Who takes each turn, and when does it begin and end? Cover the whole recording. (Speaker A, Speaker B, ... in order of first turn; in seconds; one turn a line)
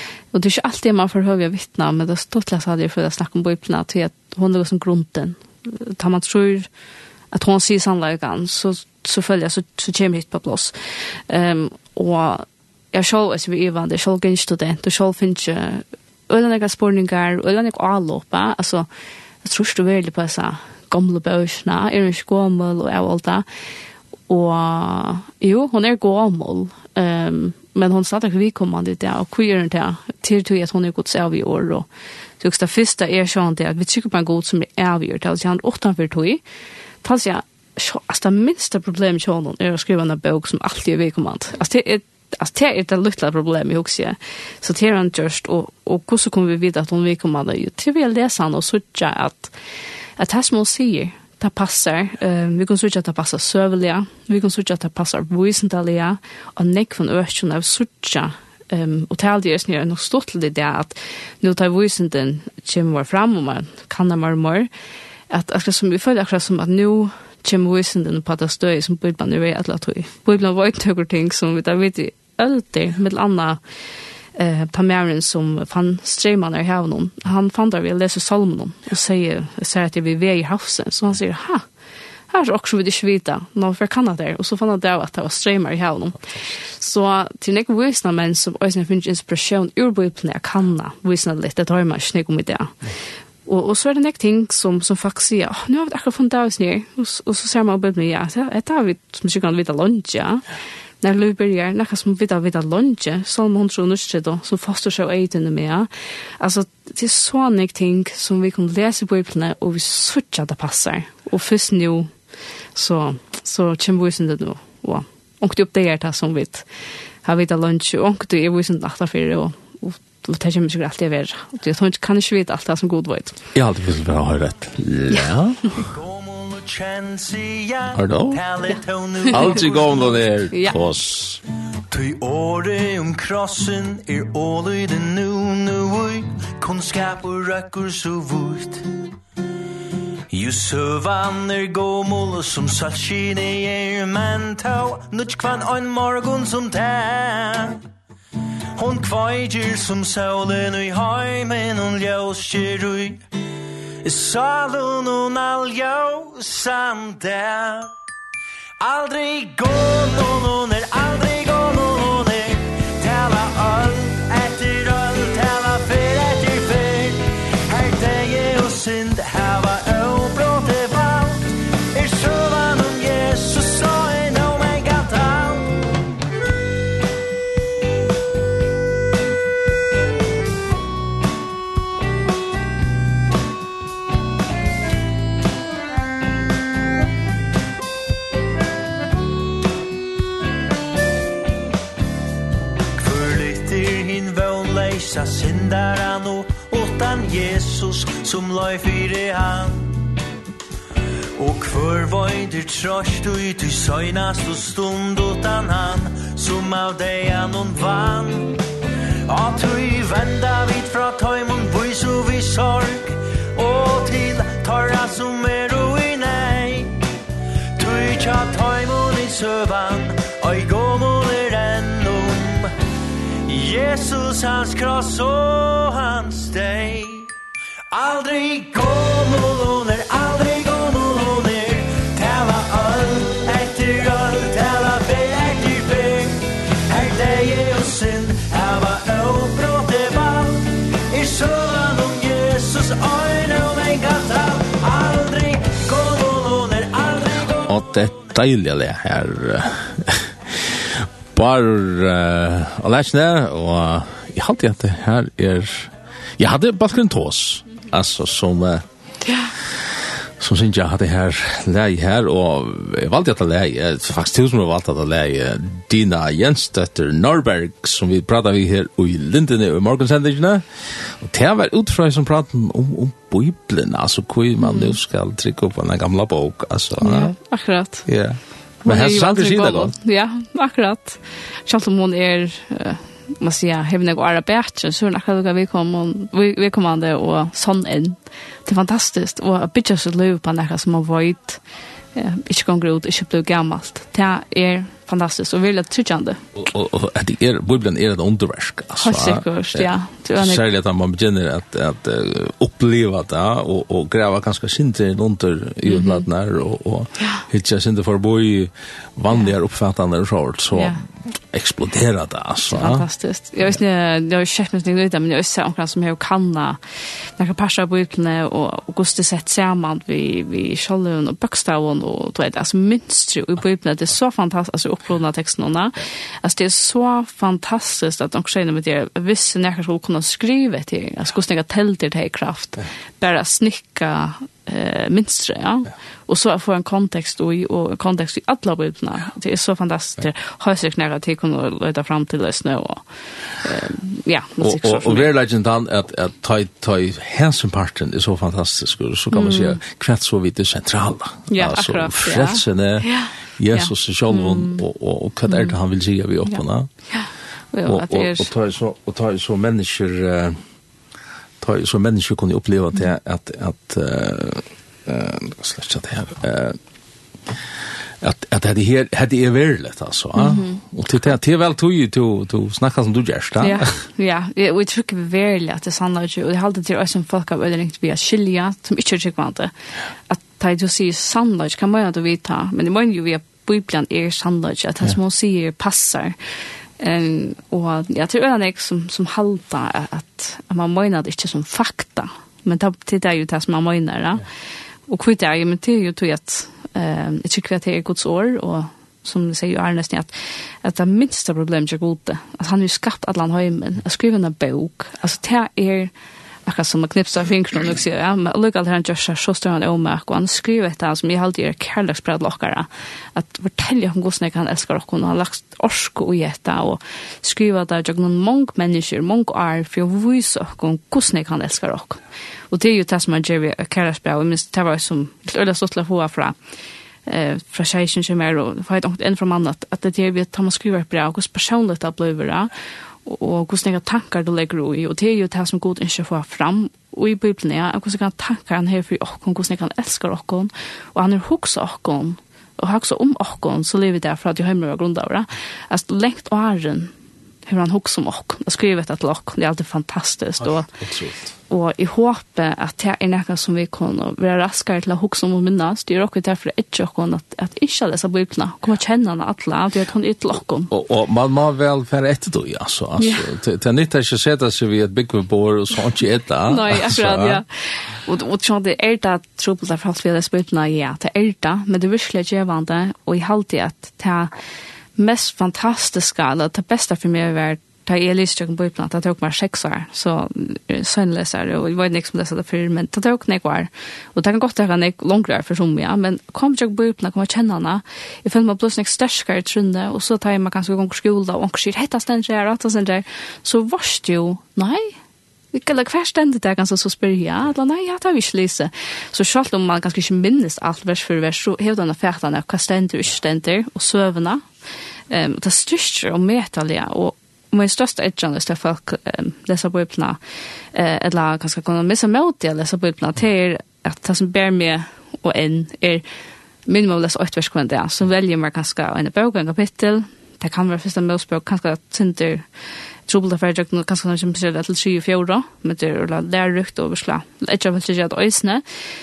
Speaker A: 0.3-6.7
Speaker A: 7.3-18.9
Speaker A: 19.4-23.4
Speaker A: 24.3-31.9
Speaker A: 32.4-36.4
Speaker A: 37.0-49.5
Speaker A: 50.2-64.7
Speaker A: 65.3-73.6
Speaker A: 74.4-81.7
Speaker A: 82.3-92.8
Speaker A: 93.5-100.5
Speaker A: 101.0-112.1
Speaker A: 112.7-116.7
Speaker A: 117.2-123.4
Speaker B: 123.5-125.9
Speaker C: 125.8-130.2
Speaker B: 128.0-128.4
Speaker A: 129.3-129.6
Speaker B: 129.3-131.4
Speaker A: 130.5-130.8
Speaker C: 131.9-138.9
Speaker C: 140.3-147.8
Speaker C: 148.8-153.2
Speaker C: 154.0-157.9
Speaker C: 158.8-175.9
Speaker C: 192.9-200.0
Speaker C: 201.4-208.7
Speaker C: 209.3-217.1
Speaker C: 217.8-222.8
Speaker C: 223.4-227.3
Speaker C: 227.9-247.8
Speaker B: 247.7-258.9
Speaker A: 259.3-259.5
Speaker B: 260.4-277.4
Speaker A: 274.6-275.0
Speaker A: 277.0-278.1
Speaker B: 278.1-279.9
Speaker A: 278.9-291.6
Speaker A: 292.1-296.4
Speaker B: 296.6-311.0
Speaker A: 299.0-300.6
Speaker A: 305.9-306.2
Speaker A: 310.7-311.0
Speaker B: 311.5-313.1
Speaker A: 312.7-316.8
Speaker A: 317.4-343.1
Speaker A: 343.6-345.3
Speaker B: 344.6-356.9
Speaker A: 349.3-349.8
Speaker A: 351.5-354.8
Speaker A: 355.5-355.8
Speaker A: 356.5-358.5
Speaker B: 357.9-360.6
Speaker B: 361.6-366.8
Speaker B: 368.2-373.9
Speaker A: 370.4-370.8
Speaker A: 373.6-379.7
Speaker A: 380.3-386.4
Speaker A: 387.0-394.5
Speaker A: 395.1-400.3
Speaker A: 400.8-406.1
Speaker A: 406.7-426.6
Speaker A: 427.3-432.7
Speaker A: 433.2-447.1
Speaker A: 447.7-450.9
Speaker B: 450.6-451.5
Speaker A: 451.7-460.9
Speaker B: 460.9-467.6
Speaker A: 463.2-463.5
Speaker A: 466.7-474.5
Speaker A: 475.2-495.2
Speaker A: 495.7-504.7
Speaker A: 505.3-510.4
Speaker A: 510.9-516.2
Speaker A: 516.9-522.7
Speaker A: 523.3-528.8